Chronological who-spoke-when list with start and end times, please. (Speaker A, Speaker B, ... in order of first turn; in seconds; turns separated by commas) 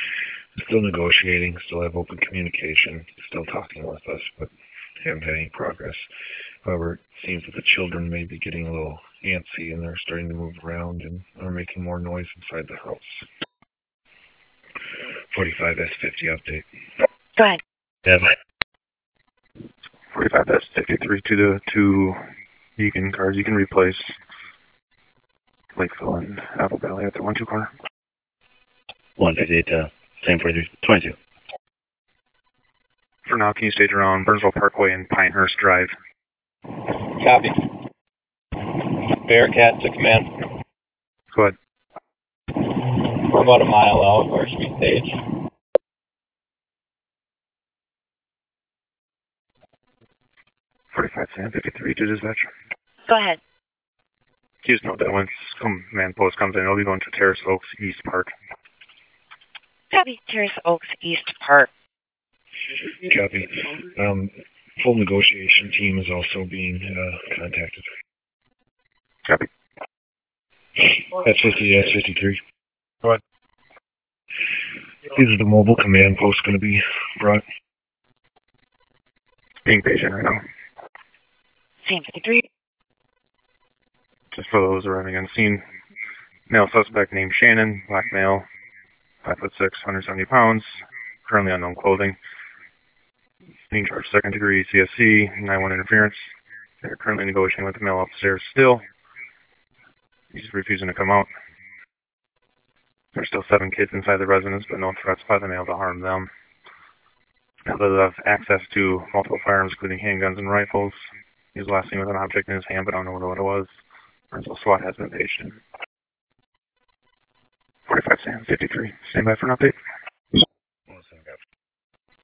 Speaker A: 0.6-6.1, Speaker A: 6.6-13.3, Speaker A: 15.3-16.7, Speaker B: 20.1-22.2, Speaker B: 22.8-24.2, Speaker B: 25.8-27.7, Speaker C: 29.2-31.2, Speaker B: 33.3-35.9, Speaker D: 37.2-37.5, Speaker D: 39.2-40.2, Speaker D: 43.2-45.1, Speaker B: 50.9-52.5, Speaker E: 53.1-53.4, Speaker B: 54.6-58.3, Speaker E: 59.9-61.7, Speaker A: 63.0-67.9, Speaker A: 71.1-72.4, Speaker A: 75.1-77.4, Speaker B: 79.6-80.4, Speaker E: 81.8-82.5, Speaker B: 84.3-85.7, Speaker B: 86.5-88.5, Speaker B: 89.2-92.2, Speaker B: 93.7-98.8, Speaker B: 100.3-101.3, Speaker B: 103.2-106.3, Speaker B: 107.7-115.6, Speaker B: 117.9-119.8